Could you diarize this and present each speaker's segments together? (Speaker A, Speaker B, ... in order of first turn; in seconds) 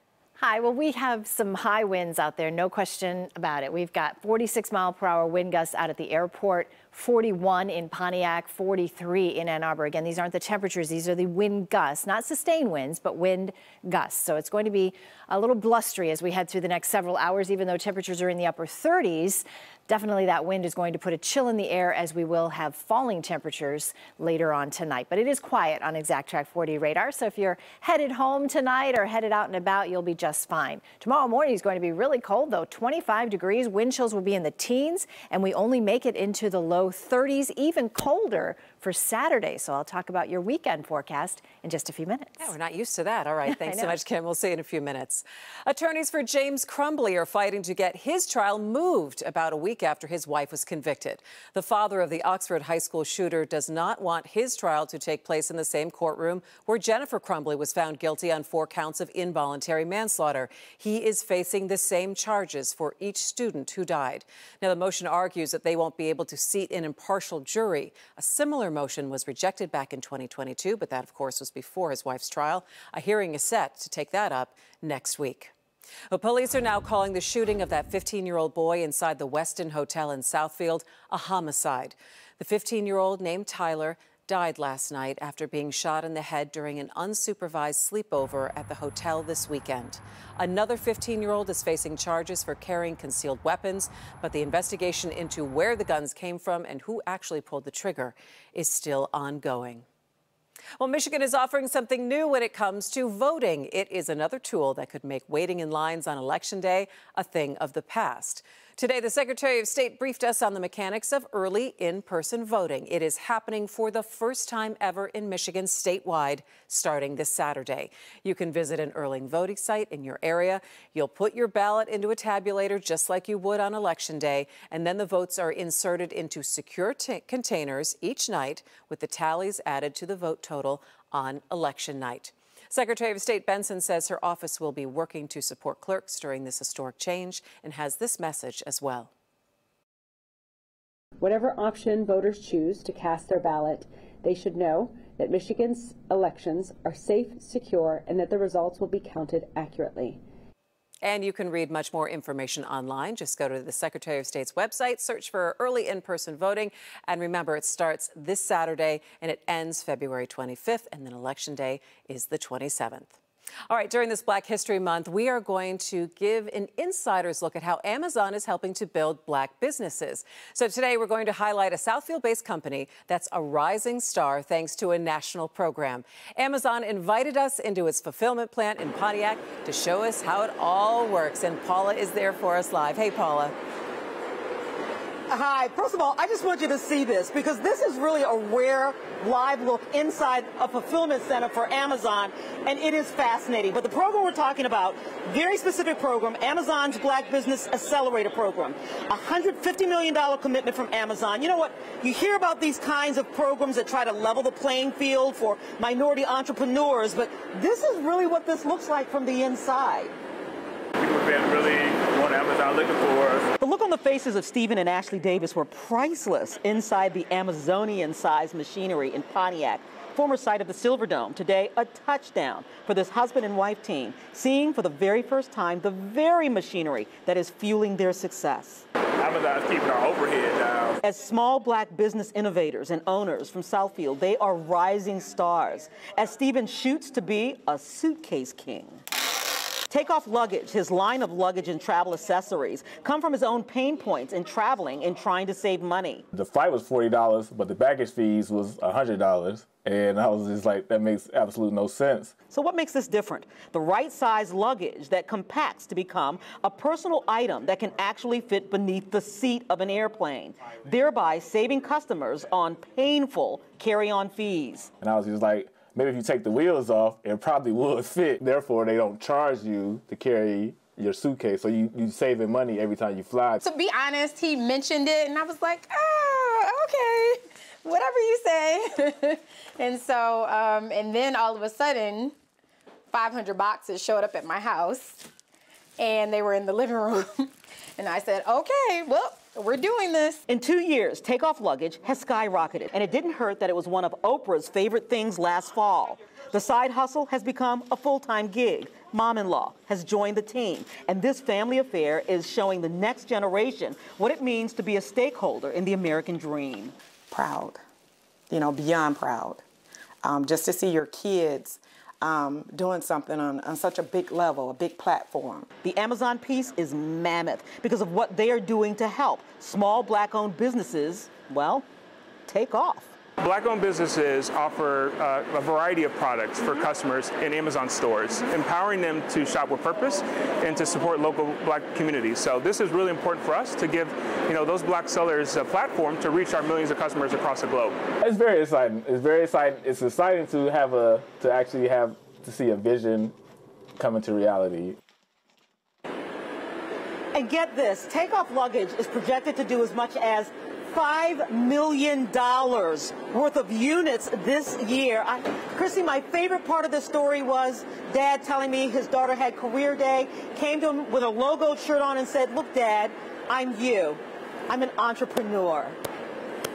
Speaker A: 0.4-42.5, 43.5-44.0
Speaker B: 42.4-75.5, 76.1-99.8, 100.8-139.1, 151.0-163.2, 163.7-183.5
Speaker C: 141.2-150.2
Speaker D: 185.3-210.1, 213.6-228.8, 231.0-239.0, 239.9-246.2, 252.5-264.9, 290.5-306.9, 315.8-321.9, 322.5-323.1, 347.3-366.0
Speaker E: 229.2-230.6, 323.4-338.1
Speaker F: 246.3-252.3, 265.0-273.6, 338.2-343.4, 344.0-345.0
Speaker G: 273.6-282.4, 283.1-285.3, 286.0-290.4
Speaker H: 307.3-307.8, 308.5-309.6, 310.2-315.7